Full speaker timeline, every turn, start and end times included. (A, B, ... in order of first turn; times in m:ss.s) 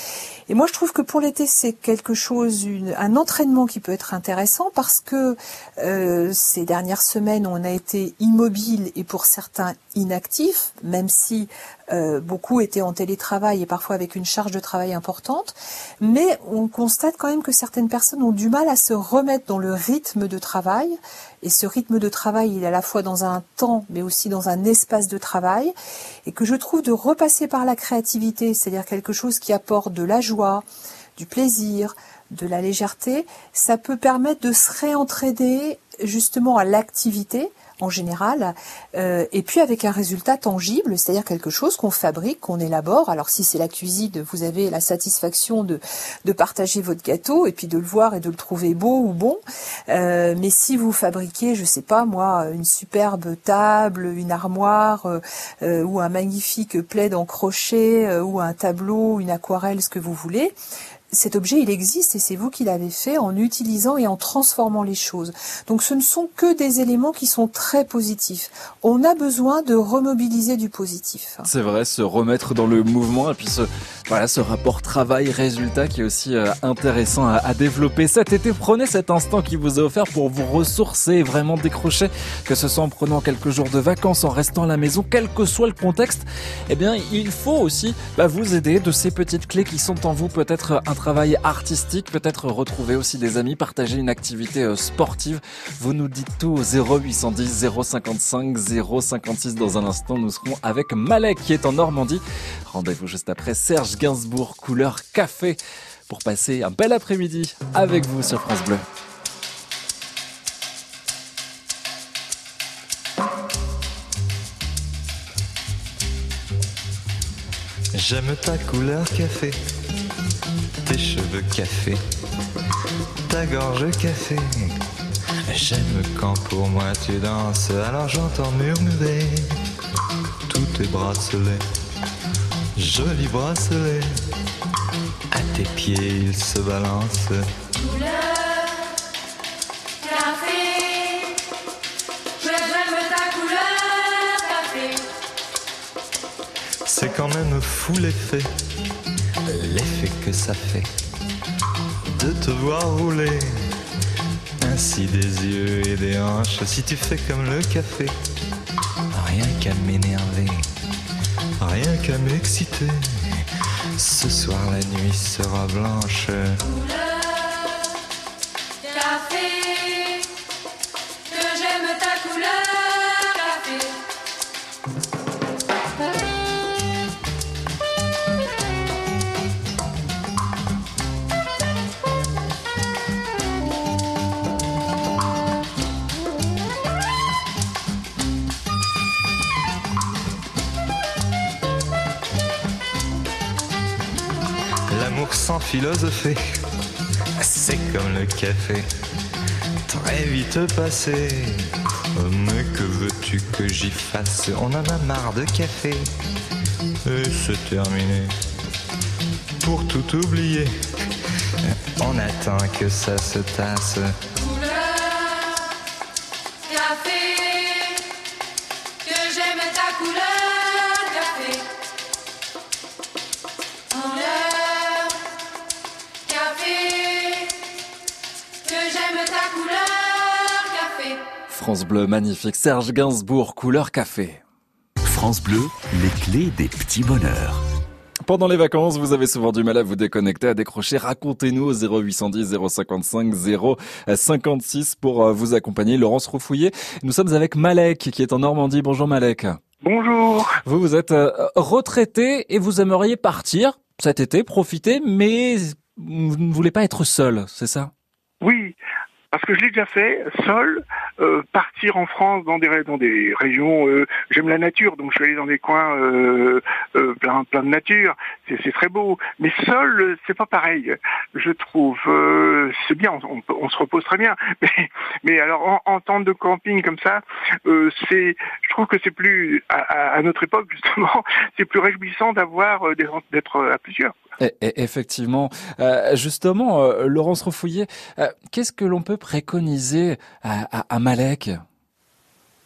0:00.5-0:25.7 A
0:26.2-0:30.6 A
0:31.2-1:00.5 A
1:01.1-1:11.5 A
1:11.4-1:48.8 B
1:57.9-1:59.6 C
2:00.8-2:02.0 C
2:03.3-2:04.7 C
2:05.5-2:09.5 C
2:10.5-2:11.6 C
2:12.7-2:14.1 C
2:15.3-2:17.4 C
2:17.9-2:18.2 D
2:20.0-2:21.1 D
2:22.4-2:25.0 D
2:26.8-2:28.5 C
2:29.5-2:30.9 C
2:32.1-2:33.5 C
2:34.6-2:38.1 C
2:39.1-2:40.6 C
2:41.6-2:43.0 C
2:44.0-2:46.6 C
2:48.9-2:50.2 D
2:51.3-2:53.9 D
3:14.9-3:16.4 C
3:17.4-3:18.9 C
3:19.9-3:21.6 C
3:22.1-3:26.1 C
3:27.0-3:28.3 C
3:29.6-3:30.7 C
3:32.0-3:34.2 C
3:36.7-3:37.7 D
3:39.1-3:41.6 D
3:43.9-3:45.0 D
3:46.3-3:47.4 D
3:48.7-3:51.2 D
3:51.5-3:54.4 B
3:55.0-3:57.6 E
3:58.2-4:09.6 B
4:09.8-4:10.6 F
4:10.6-4:17.9 B
4:18.4-4:18.8 F
4:19.3-4:44.1 F
4:44.4-4:51.6 B